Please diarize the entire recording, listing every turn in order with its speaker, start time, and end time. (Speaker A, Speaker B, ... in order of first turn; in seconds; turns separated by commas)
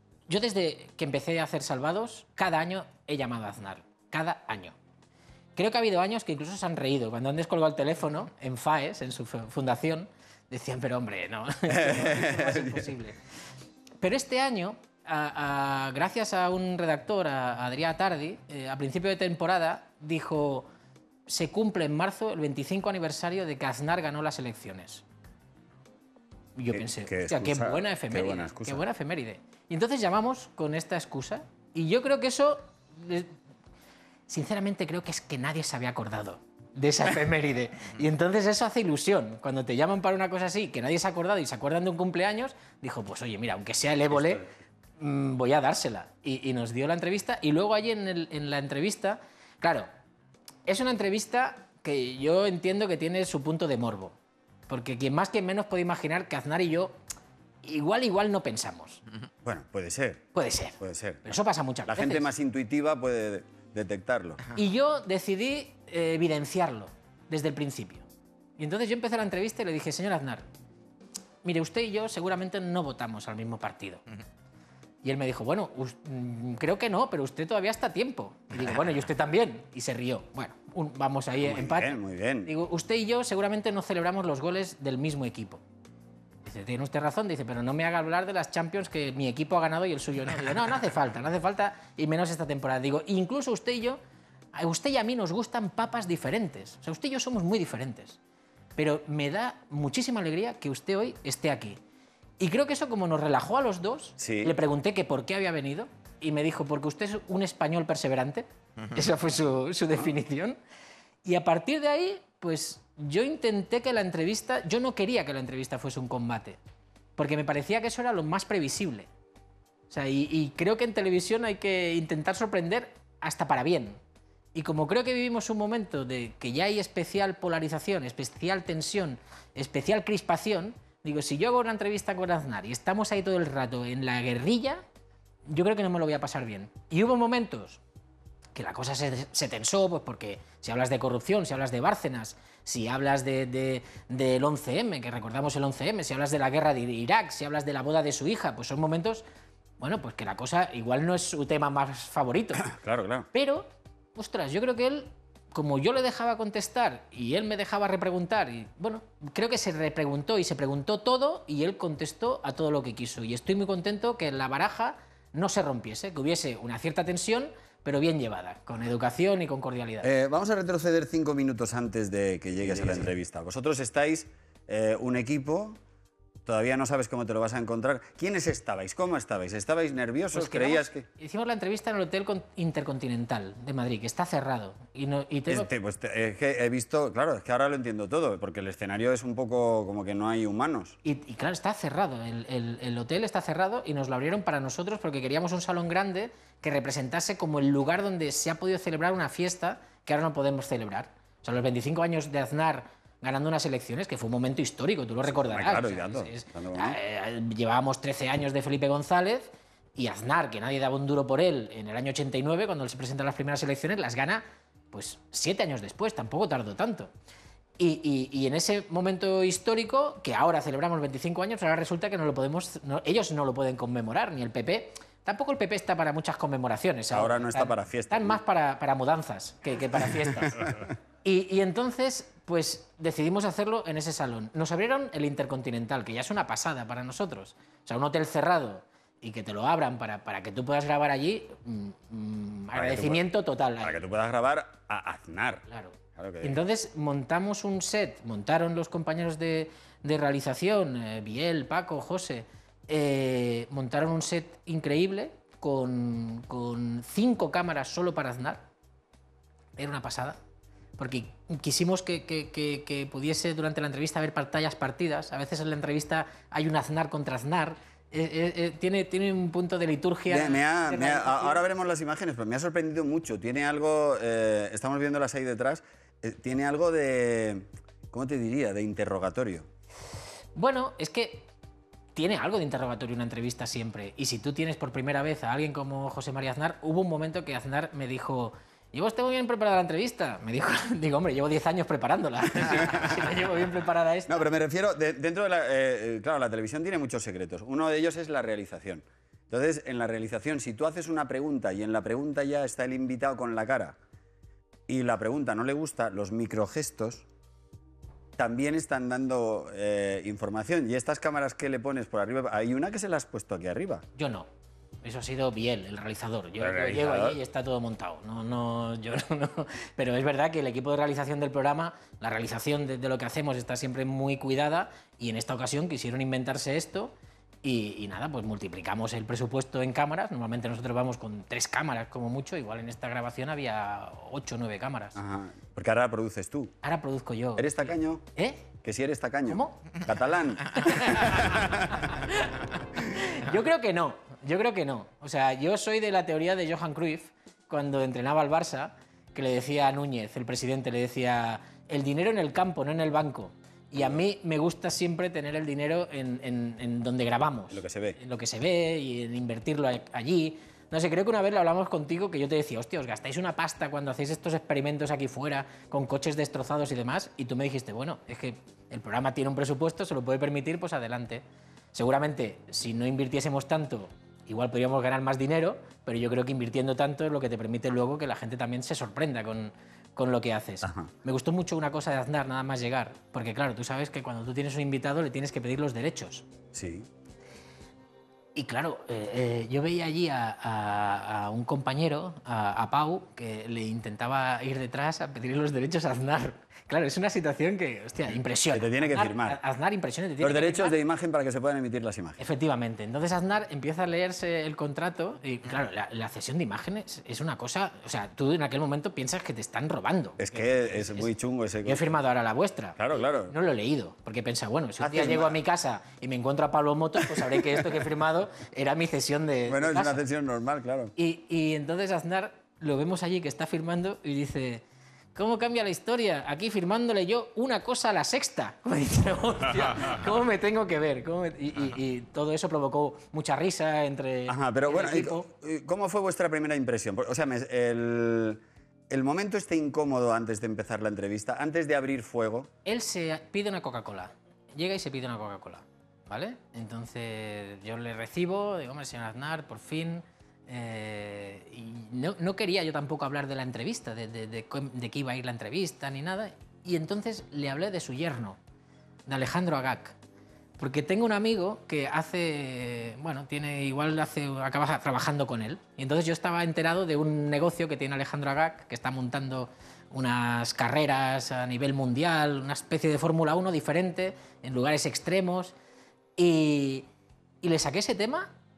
Speaker A: 0.3-4.8, Speaker A: 5.5-13.2, Speaker B: 11.7-12.9, Speaker A: 14.0-20.7, Speaker A: 21.3-25.0, Speaker A: 26.6-33.3, Speaker B: 26.7-28.8, Speaker A: 34.3-44.4, Speaker B: 44.1-44.5, Speaker A: 45.0-49.9, Speaker A: 50.7-54.1, Speaker A: 54.7-57.0, Speaker A: 57.6-59.0, Speaker B: 59.4-64.4, Speaker A: 60.3-62.3, Speaker A: 64.5-68.0, Speaker A: 68.6-70.4, Speaker A: 71.4-74.0, Speaker A: 75.0-85.6, Speaker B: 81.4-82.5, Speaker A: 86.4-94.0, Speaker A: 94.5-98.2, Speaker A: 98.8-101.8, Speaker A: 102.4-110.6, Speaker B: 104.2-104.5, Speaker A: 111.2-116.6, Speaker A: 117.2-119.1, Speaker A: 119.9-124.0, Speaker A: 124.5-134.8, Speaker A: 135.5-137.8, Speaker A: 138.5-149.2, Speaker A: 149.8-152.7, Speaker B: 152.6-153.3, Speaker A: 153.3-170.1, Speaker B: 170.0-175.8, Speaker B: 176.4-181.1, Speaker A: 180.3-185.7, Speaker B: 185.5-191.0, Speaker A: 191.0-217.1, Speaker B: 205.2-207.0, Speaker A: 217.8-230.7, Speaker B: 227.1-228.4, Speaker B: 229.9-230.9, Speaker A: 231.2-244.0, Speaker B: 242.7-243.2, Speaker B: 243.8-246.6, Speaker A: 245.7-258.6, Speaker A: 259.8-260.4, Speaker A: 261.0-271.6, Speaker B: 270.3-279.7, Speaker A: 280.5-281.5, Speaker A: 282.1-294.4, Speaker B: 292.7-293.2, Speaker B: 294.3-304.0, Speaker B: 304.9-307.2, Speaker B: 308.4-314.0, Speaker A: 314.1-314.5, Speaker A: 315.0-327.1, Speaker B: 316.6-317.4, Speaker A: 327.6-335.2, Speaker B: 335.1-336.7, Speaker A: 336.8-338.6, Speaker B: 337.6-338.2, Speaker B: 338.8-342.1, Speaker A: 339.5-339.8, Speaker A: 340.8-371.4, Speaker B: 353.9-354.2, Speaker B: 357.7-358.2, Speaker A: 371.9-386.4, Speaker B: 380.8-381.1, Speaker B: 386.7-387.1, Speaker A: 388.5-400.9, Speaker B: 398.7-399.6, Speaker B: 400.4-402.4, Speaker A: 402.4-411.3, Speaker B: 410.4-412.1, Speaker A: 411.8-420.2, Speaker B: 413.0-413.5, Speaker B: 415.0-415.6, Speaker B: 417.2-417.9, Speaker B: 419.7-421.1, Speaker A: 421.1-424.8, Speaker A: 425.3-435.5, Speaker B: 434.5-442.7, Speaker A: 442.9-458.6, Speaker A: 459.3-460.1, Speaker A: 460.8-475.7, Speaker A: 476.4-477.1, Speaker A: 477.6-478.5